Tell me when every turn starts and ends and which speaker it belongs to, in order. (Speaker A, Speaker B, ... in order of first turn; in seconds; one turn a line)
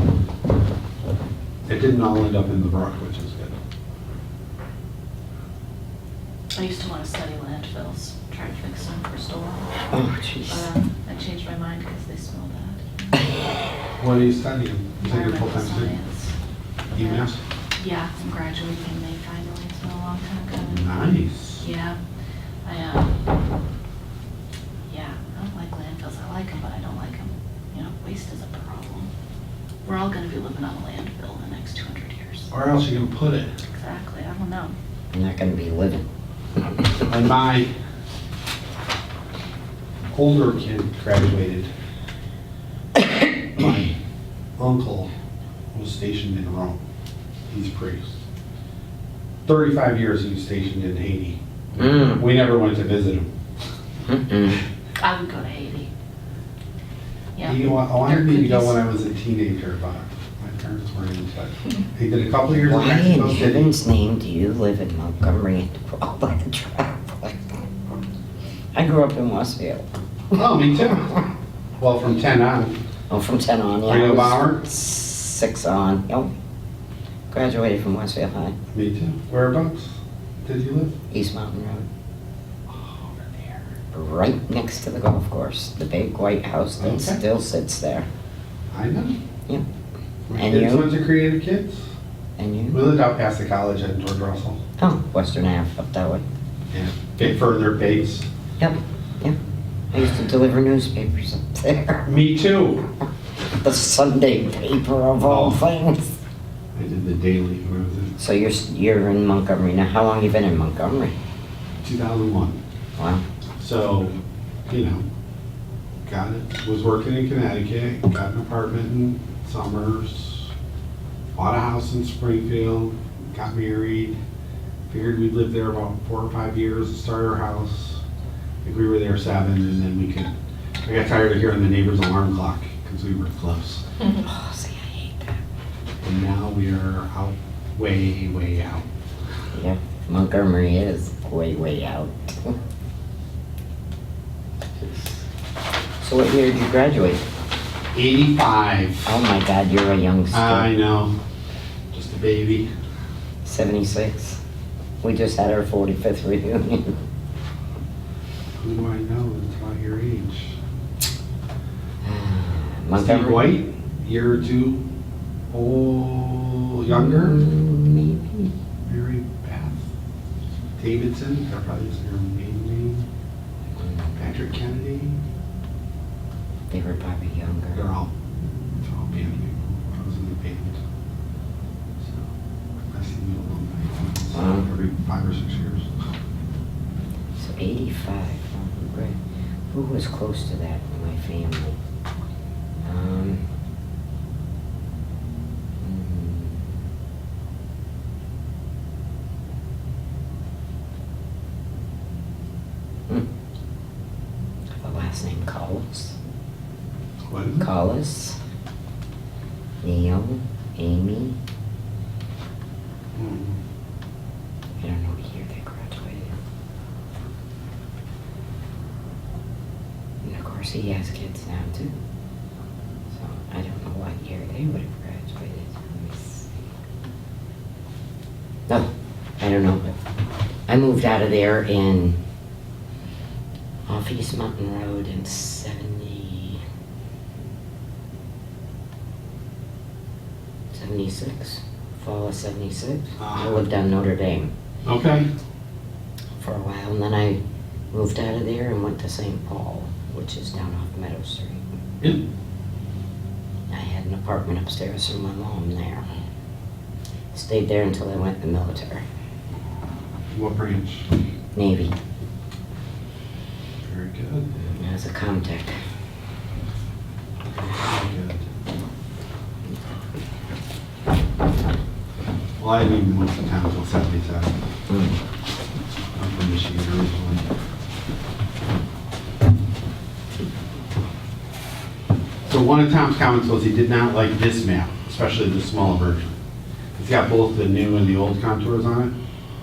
Speaker A: 1.7-3.6
Speaker B: 6.5-9.7
Speaker C: 9.9-10.7
Speaker B: 10.5-13.2
Speaker A: 14.0-15.9
Speaker B: 15.0-16.3
Speaker A: 16.9-17.4
Speaker B: 17.0-17.2
Speaker B: 17.8-21.0
Speaker A: 20.7-21.6
Speaker B: 21.6-22.0
Speaker B: 22.6-23.1
Speaker B: 24.9-29.1
Speaker B: 29.9-32.5
Speaker A: 32.5-33.5
Speaker B: 33.8-34.8
Speaker C: 35.1-36.0
Speaker A: 37.0-37.7
Speaker A: 40.1-41.7
Speaker A: 43.6-44.0
Speaker A: 44.6-45.1
Speaker A: 45.7-46.8
Speaker A: 47.5-48.1
Speaker A: 49.5-53.3
Speaker C: 51.8-52.3
Speaker C: 54.1-54.6
Speaker B: 55.0-55.9
Speaker B: 57.4-58.8
Speaker A: 57.4-63.8
Speaker C: 62.6-67.4
Speaker C: 68.8-69.9
Speaker A: 70.3-72.8
Speaker C: 73.1-76.3
Speaker A: 73.9-74.7
Speaker C: 77.3-78.6
Speaker A: 78.7-81.0
Speaker C: 81.1-81.9
Speaker A: 82.7-83.6
Speaker C: 83.9-88.1
Speaker A: 86.8-87.2
Speaker A: 88.7-89.2
Speaker A: 90.3-91.8
Speaker C: 90.3-90.9
Speaker C: 92.4-92.9
Speaker A: 92.7-94.6
Speaker C: 94.8-96.2
Speaker A: 96.7-98.3
Speaker C: 98.6-99.4
Speaker C: 99.9-102.1
Speaker A: 102.1-102.9
Speaker C: 103.6-106.2
Speaker A: 105.2-105.6
Speaker A: 106.8-108.2
Speaker C: 108.2-111.1
Speaker A: 111.8-112.6
Speaker C: 113.0-113.2
Speaker A: 113.6-114.2
Speaker A: 114.7-115.0
Speaker A: 116.1-120.5
Speaker A: 121.3-124.2
Speaker A: 124.9-128.0
Speaker A: 128.6-130.3
Speaker A: 130.8-133.8
Speaker C: 134.2-135.4
Speaker A: 136.0-138.9
Speaker C: 139.5-142.6
Speaker C: 146.0-147.2
Speaker A: 147.9-149.2
Speaker C: 149.1-150.7
Speaker A: 150.3-151.1
Speaker A: 151.9-152.7
Speaker C: 153.4-154.4
Speaker C: 155.0-156.9
Speaker A: 158.6-160.6
Speaker C: 162.0-163.6
Speaker A: 162.9-164.9
Speaker A: 165.5-167.4
Speaker C: 166.9-168.5
Speaker A: 168.8-169.8
Speaker A: 170.8-173.1
Speaker C: 173.8-174.2
Speaker A: 174.2-175.2
Speaker C: 176.7-177.9
Speaker A: 177.7-178.1
Speaker A: 178.8-180.8
Speaker A: 182.0-182.3
Speaker A: 182.9-185.9
Speaker C: 184.3-184.7
Speaker C: 187.4-189.2
Speaker C: 189.7-191.8
Speaker C: 192.8-193.4
Speaker C: 195.8-196.7
Speaker C: 204.8-206.2
Speaker A: 207.3-207.7
Speaker C: 207.6-208.4
Speaker C: 209.8-211.4
Speaker A: 213.2-213.6
Speaker C: 214.8-216.4
Speaker C: 220.2-222.0
Speaker C: 223.1-226.7
Speaker C: 228.7-229.9
Speaker C: 230.7-232.2
Speaker C: 233.9-236.6
Speaker C: 240.7-244.5
Speaker A: 243.2-243.6
Speaker A: 244.8-245.3
Speaker C: 246.4-247.4
Speaker C: 247.9-251.6
Speaker C: 253.7-256.1
Speaker C: 257.3-259.0
Speaker A: 260.3-261.1
Speaker C: 261.6-261.9
Speaker A: 263.8-264.7
Speaker C: 264.8-265.8
Speaker A: 267.5-268.5
Speaker A: 272.6-274.5
Speaker C: 274.9-275.2
Speaker A: 276.2-277.5
Speaker A: 282.4-286.4
Speaker A: 286.9-289.1